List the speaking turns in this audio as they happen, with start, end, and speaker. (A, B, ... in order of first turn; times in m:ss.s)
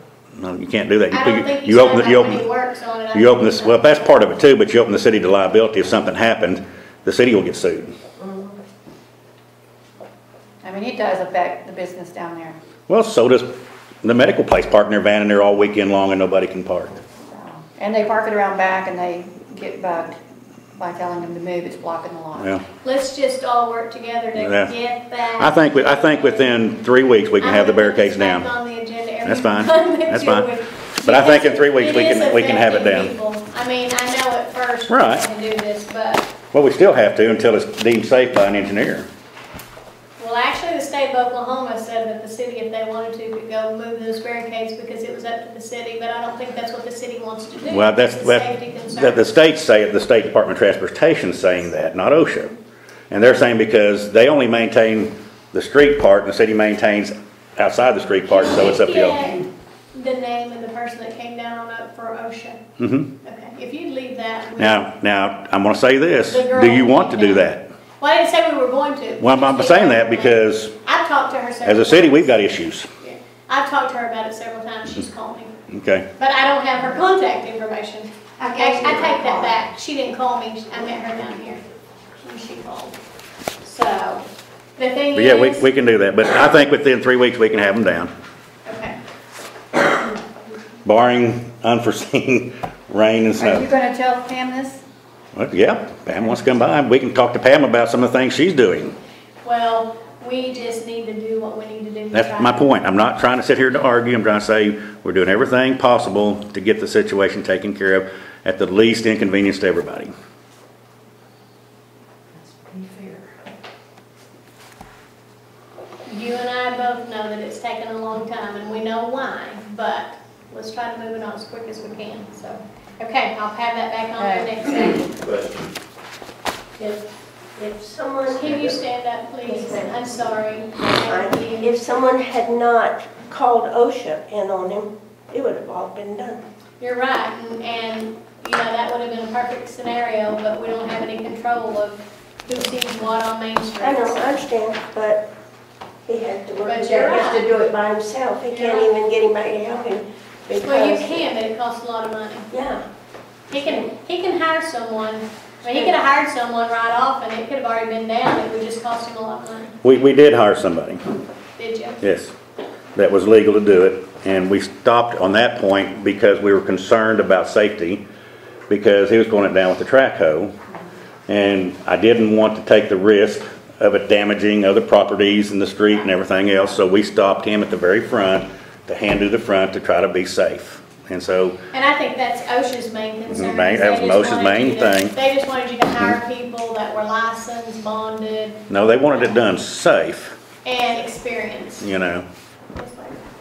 0:00.4-0:02.5 A
0:01.1-0:04.1 B
0:03.1-0:07.9 A
0:08.2-0:08.6 C
0:10.6-0:12.6 D
0:12.9-0:16.9 A
0:17.3-0:20.2 D
0:20.8-0:22.5 D
0:22.4-0:22.6 A
0:22.8-0:26.5 B
0:24.4-0:24.7 A
0:25.4-0:28.5 A
0:27.4-0:36.3 B
0:29.2-0:33.1 A
0:34.9-0:35.2 A
0:36.5-0:39.1 A
0:40.2-0:49.3 B
0:47.7-0:52.5 A
0:53.1-0:59.3 A
0:58.3-1:02.6 B
1:02.8-1:03.1 A
1:03.2-1:04.8 B
1:04.6-1:07.7 A
1:06.3-1:07.5 B
1:08.0-1:15.6 B
1:09.2-1:10.7 A
1:11.6-1:12.9 A
1:15.7-1:16.1 A
1:16.2-1:21.6 B
1:18.4-1:19.6 D
1:22.2-1:23.0 B
1:23.6-1:24.2 B
1:24.8-1:25.6 B
1:25.1-1:28.1 A
1:28.6-1:29.0 B
1:30.8-1:33.7 A
1:33.4-1:34.8 D
1:35.3-1:39.0 A
1:39.4-1:42.7 B
1:42.1-1:50.1 A
1:52.4-1:53.2 D
1:56.0-2:05.2 B
2:04.2-2:04.5 D
2:06.8-2:07.0 C
2:07.5-2:08.8 C
2:08.3-2:11.7 B
2:09.4-2:10.0 C
2:11.0-2:16.4 C
2:16.8-2:24.4 B
2:23.8-2:25.3 C
2:26.0-2:31.3 C
2:26.6-2:27.4 B
2:28.5-2:28.9 B
2:30.6-2:32.5 B
2:32.5-2:32.8 C
2:33.5-2:39.7 B
2:35.6-2:36.0 C
2:39.8-2:41.0 A
2:41.6-2:42.0 B
2:42.0-2:42.3 A
2:42.9-2:48.0 A
2:48.7-2:50.5 A
2:51.3-3:01.6 A
3:01.7-3:09.4 B
3:03.3-3:05.2 A
3:05.9-3:06.2 A
3:08.7-3:10.4 A
3:10.6-3:11.9 B
3:11.8-3:12.3 A
3:12.7-3:13.2 B